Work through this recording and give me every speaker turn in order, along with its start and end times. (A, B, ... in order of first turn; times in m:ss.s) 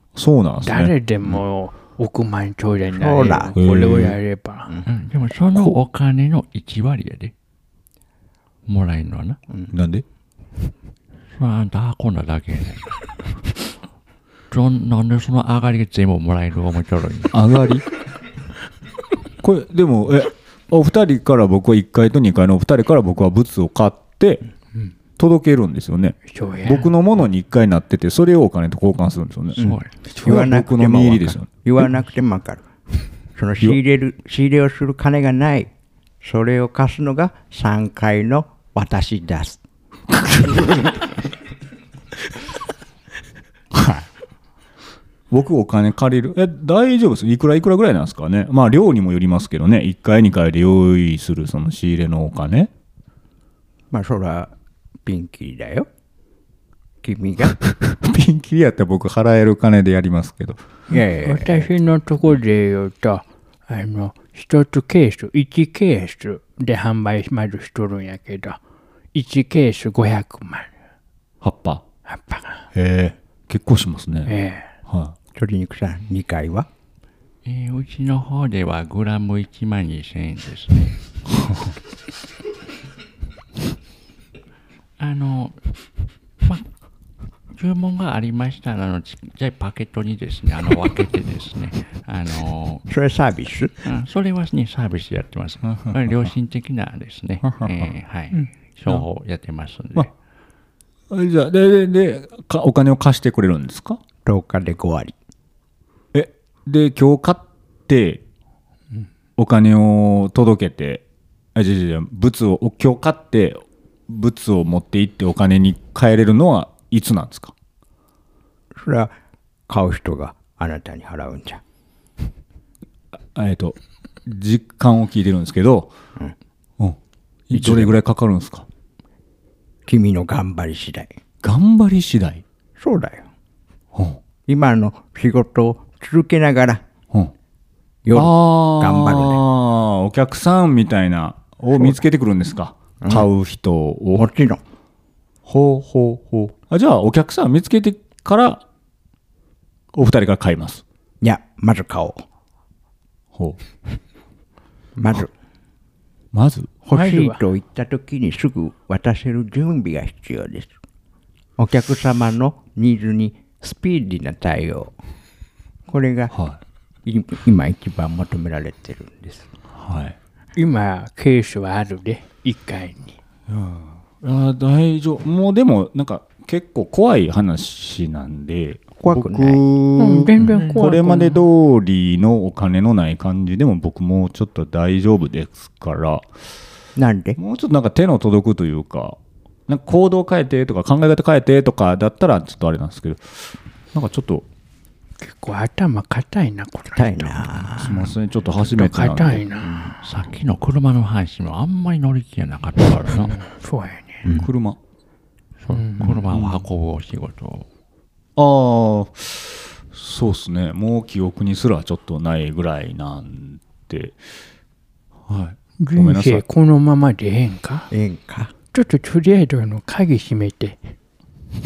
0:00.1-0:01.3 A
0:00.6-0:04.7 B
0:02.9-0:03.5 C
0:03.6-0:04.2 A
0:04.8-0:07.3 D
0:08.6-0:09.4 D
0:09.7-0:10.0 A
0:11.3-0:13.0 D
0:14.5-0:17.3 D
0:17.3-0:17.8 A
0:19.4-0:24.4 A
0:25.2-0:29.7 A
0:26.3-0:26.9 B
0:29.6-0:29.9 D
0:29.6-0:32.7 C
0:30.2-0:31.5 A
0:33.3-0:35.7 C
0:36.2-0:39.6 C
0:40.2-0:40.5 A
0:43.7-0:44.0 A
0:45.3-0:52.7 A
0:53.9-0:54.5 C
0:55.0-0:55.9 C
0:57.0-0:57.6 C
0:57.7-1:00.6 A
1:00.9-1:01.7 C
1:00.9-1:08.6 B
1:09.1-1:10.7 B
1:11.4-1:11.8 A
1:12.1-1:12.7 B
1:12.7-1:14.3 A
1:14.3-1:14.7 B
1:14.9-1:15.1 A
1:15.3-1:16.7 C
1:17.4-1:21.0 D
1:21.3-1:21.7 A
1:25.0-1:25.7 D
1:27.5-1:32.8 D
1:32.9-1:33.7 C
1:33.8-1:40.1 D
1:35.6-1:36.3 A
1:37.4-1:37.9 A
1:41.1-1:44.0 A
1:44.2-1:45.1 C
1:46.1-1:48.2 A
1:49.4-1:51.0 A
1:51.5-1:57.5 A
1:58.7-1:59.1 C
1:59.7-2:01.6 C
2:03.1-2:05.9 A
2:07.5-2:08.7 A
2:07.5-2:07.9 C
2:09.8-2:11.1 C
2:11.4-2:12.4 A
2:12.8-2:13.2 C
2:13.9-2:14.2 A
2:14.5-2:16.8 C
2:18.0-2:19.4 C
2:18.1-2:24.3 A
2:23.0-2:23.3 C
2:24.1-2:24.6 C
2:25.4-2:28.6 A
2:29.9-2:30.8 A
2:31.2-2:32.2 C
2:35.0-2:35.3 C
2:36.3-2:36.7 A
2:36.8-2:40.7 C
2:36.9-2:37.4 B
2:41.6-2:44.9 C
2:45.9-2:46.3 C
2:46.3-2:46.6 A
2:47.0-2:49.5 C
2:49.7-2:50.2 A
2:50.6-2:53.2 B
2:53.5-3:06.2 A
2:59.0-2:59.6 C
3:00.0-3:01.4 B
3:07.0-3:07.4 C
3:07.4-3:09.2 A
3:09.7-3:14.4 A
3:15.2-3:17.7 B
3:16.9-3:18.1 C
3:17.8-3:19.5 A
3:18.6-3:19.7 B
3:19.6-3:19.9 C
3:20.0-3:23.5 D
3:23.3-3:24.2 B
3:24.3-3:24.8 A
3:25.6-3:27.7 D
3:25.7-3:26.2 B
3:26.3-3:26.6 A
3:28.4-3:34.3 A
3:35.3-3:36.4 A
3:35.8-3:37.9 B
3:37.9-3:38.5 C
3:38.7-3:40.8 B